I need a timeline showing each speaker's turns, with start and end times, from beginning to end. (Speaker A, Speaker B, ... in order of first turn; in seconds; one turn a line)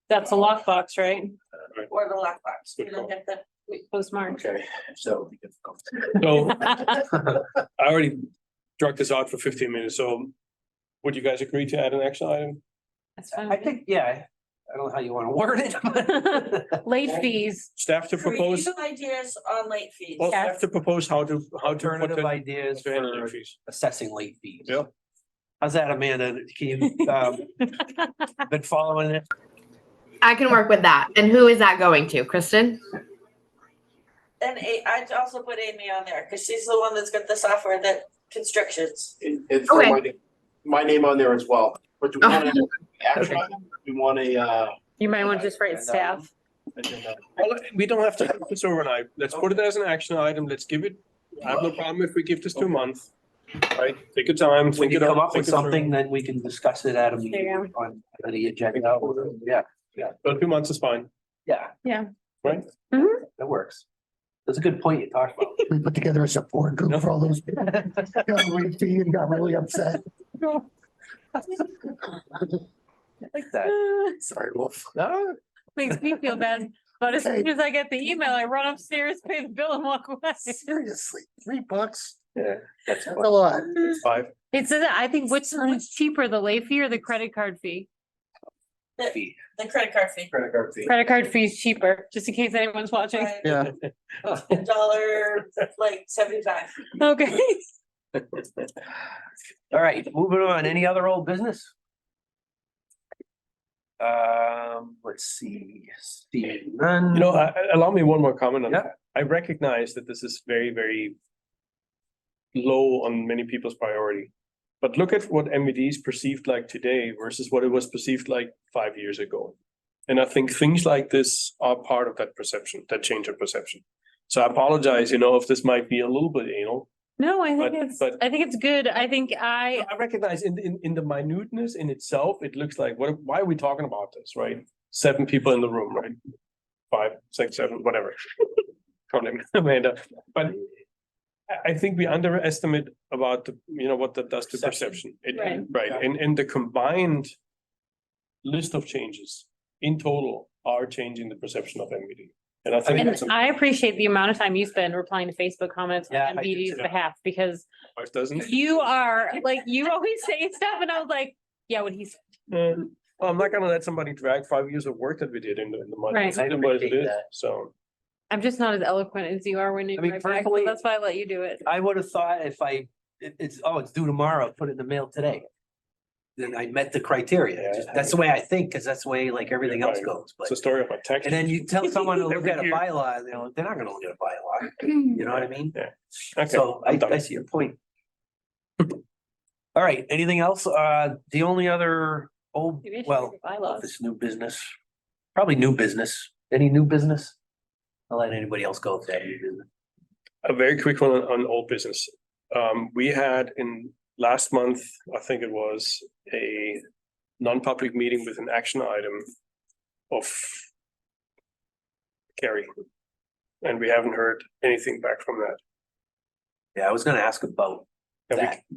Speaker A: 0.1-1.3
Speaker B: 1.9-3.4
Speaker C: 2.8-3.1
Speaker A: 3.7-4.4
Speaker D: 4.3-5.9
Speaker C: 6.2-6.7
Speaker A: 6.3-7.0
Speaker C: 7.8-8.2
Speaker C: 8.8-10.3
Speaker C: 11.0-12.6
Speaker A: 13.2-13.8
Speaker E: 13.5-16.6
Speaker A: 16.0-17.7
Speaker C: 17.8-18.8
Speaker B: 18.1-20.3
Speaker C: 20.2-23.6
Speaker A: 20.3-20.6
Speaker E: 21.6-24.7
Speaker E: 25.6-27.4
Speaker A: 26.8-28.3
Speaker E: 28.5-29.2
Speaker F: 30.2-32.8
Speaker B: 34.4-39.2
Speaker D: 39.2-44.8
Speaker F: 39.7-40.0
Speaker A: 45.0-46.3
Speaker E: 45.3-46.2
Speaker C: 46.8-53.1
Speaker C: 53.7-55.9
Speaker E: 54.7-60.1
Speaker A: 57.3-57.7
Speaker C: 58.7-59.3
Speaker C: 60.2-61.1
Speaker E: 61.5-61.7
Speaker A: 62.9-63.2
Speaker E: 63.3-63.8
Speaker E: 64.5-65.6
Speaker G: 65.7-70.0
Speaker E: 73.3-73.8
Speaker A: 73.6-74.2
Speaker G: 74.2-74.9
Speaker E: 75.0-75.4
Speaker A: 75.7-80.8
Speaker G: 77.2-77.5
Speaker G: 80.7-82.2
Speaker E: 82.3-83.3
Speaker G: 83.1-83.7
Speaker C: 84.0-84.3
Speaker A: 84.5-87.9
Speaker B: 89.0-90.3
Speaker D: 90.3-90.9
Speaker A: 90.8-93.7
Speaker B: 93.1-93.4
Speaker G: 93.4-93.7
Speaker B: 94.2-96.9
Speaker A: 96.9-97.6
Speaker E: 99.7-101.7
Speaker E: 104.0-107.3
Speaker C: 107.1-111.2
Speaker C: 112.5-114.3
Speaker C: 114.8-119.5
Speaker C: 120.1-126.9
Speaker A: 127.2-129.9
Speaker C: 127.6-128.2
Speaker C: 129.7-136.2
Speaker C: 136.9-140.6
Speaker C: 141.5-147.3
Speaker E: 144.5-145.0
Speaker A: 145.3-145.7
Speaker C: 148.4-153.4
Speaker A: 152.9-157.7
Speaker E: 156.1-156.8
Speaker C: 157.9-158.9
Speaker A: 158.4-162.2
Speaker C: 162.5-167.7
Speaker A: 166.1-166.4
Speaker E: 166.3-167.2
Speaker A: 168.3-171.6
Speaker E: 170.0-170.7
Speaker E: 171.6-175.4
Speaker E: 176.4-180.5
Speaker C: 177.6-178.2
Speaker C: 179.6-182.8
Speaker E: 181.2-185.7
Speaker C: 185.0-187.3
Speaker E: 186.5-187.8
Speaker E: 189.7-194.7
Speaker A: 192.8-193.9
Speaker E: 195.3-197.3
Speaker E: 198.1-199.6
Speaker C: 200.4-206.8
Speaker C: 207.4-209.3
Speaker C: 210.1-210.7
Speaker C: 212.4-212.7
Speaker C: 213.6-215.6
Speaker E: 216.8-218.6
Speaker C: 218.3-218.6